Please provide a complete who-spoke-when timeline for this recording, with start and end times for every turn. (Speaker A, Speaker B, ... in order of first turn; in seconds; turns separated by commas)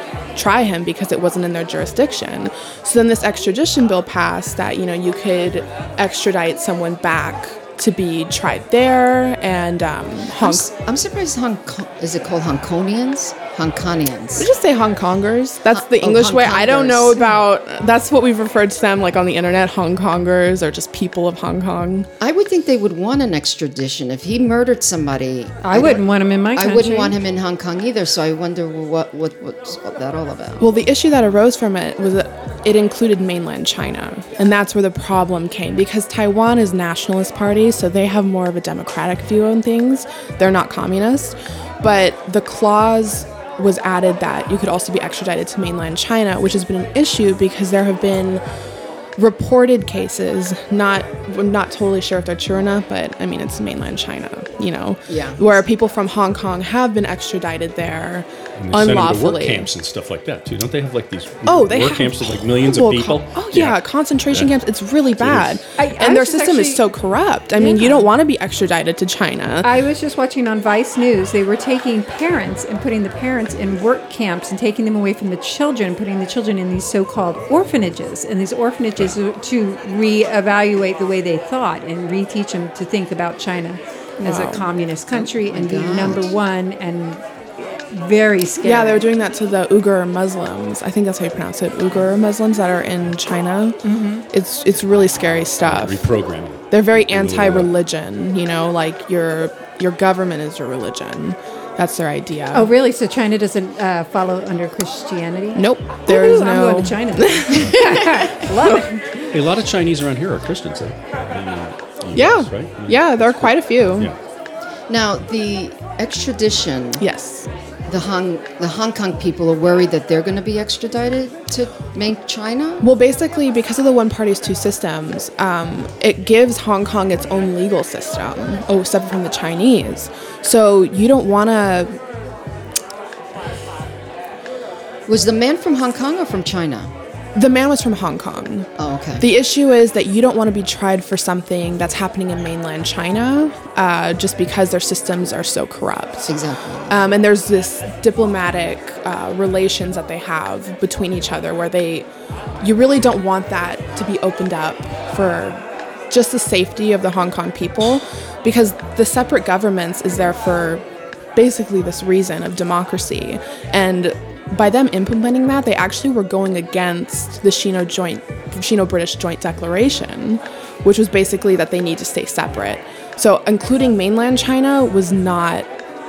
Speaker A: 0.3-10.7, Speaker B: 10.4-14.5, Speaker A: 14.4-22.1, Speaker B: 15.7-17.3, Speaker B: 22.2-30.7, Speaker C: 25.6-27.2, Speaker A: 30.6-48.4, Speaker A: 49.2-59.7, Speaker B: 55.1-55.5, Speaker D: 58.6-64.5, Speaker A: 61.5-69.7, Speaker D: 65.2-65.6, Speaker C: 65.8-66.8, Speaker C: 67.6-68.1, Speaker C: 69.6-89.1, Speaker A: 84.2-84.7, Speaker B: 85.1-86.3, Speaker A: 88.6-93.8, Speaker C: 93.8-94.2, Speaker A: 94.3-96.0, Speaker D: 95.6-97.7, Speaker A: 96.7-102.7, Speaker C: 102.5-109.0, Speaker A: 105.5-108.8, Speaker D: 109.3-114.2, Speaker A: 112.2-114.1, Speaker B: 114.9-117.0, Speaker A: 117.0-117.5, Speaker B: 117.9-122.9, Speaker A: 122.8-131.9, Speaker B: 135.1-136.9, Speaker A: 137.3-146.3, Speaker B: 138.8-139.3, Speaker B: 146.3-147.0, Speaker A: 146.9-152.1, Speaker A: 152.6-155.6, Speaker A: 156.1-160.8, Speaker A: 161.4-175.7